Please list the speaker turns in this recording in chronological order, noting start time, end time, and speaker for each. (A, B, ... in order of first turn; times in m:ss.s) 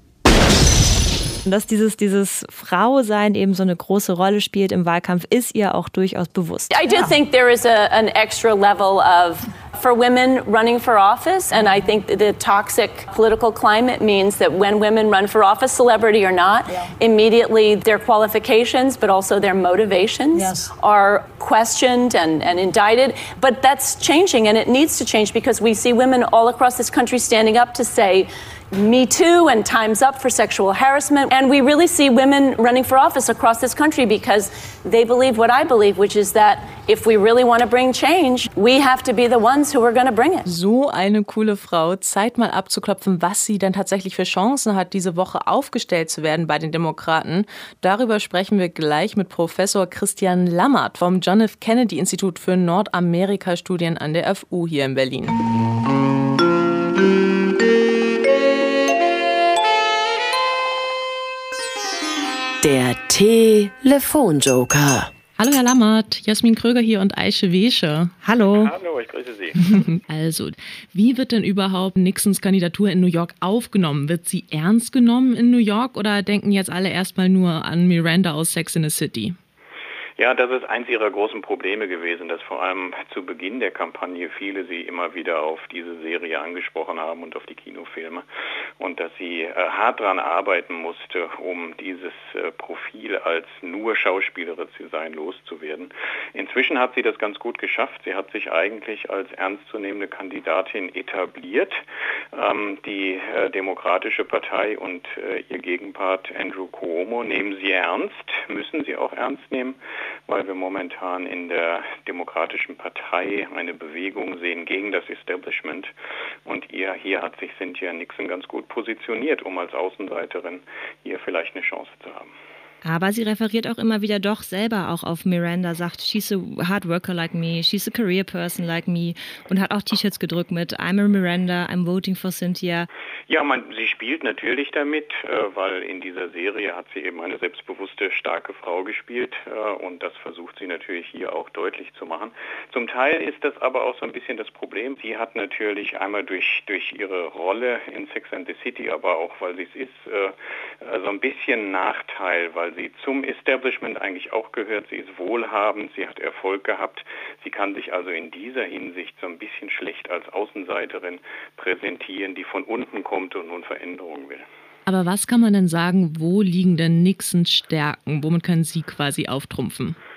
0:01.4-0:06.8 A
0:06.7-0:40.5 B
0:40.4-0:55.4 C
1:02.6-1:05.1 D
1:05.4-1:08.1 C
1:08.2-1:08.7 A
1:08.5-1:09.8 E
1:09.6-1:19.4 C
1:20.2-1:28.2 E
1:28.8-1:41.7 E
1:42.3-1:55.9 E
1:56.4-2:02.3 E
2:02.8-2:12.9 A
2:13.3-2:44.4 E
2:44.8-2:50.0 C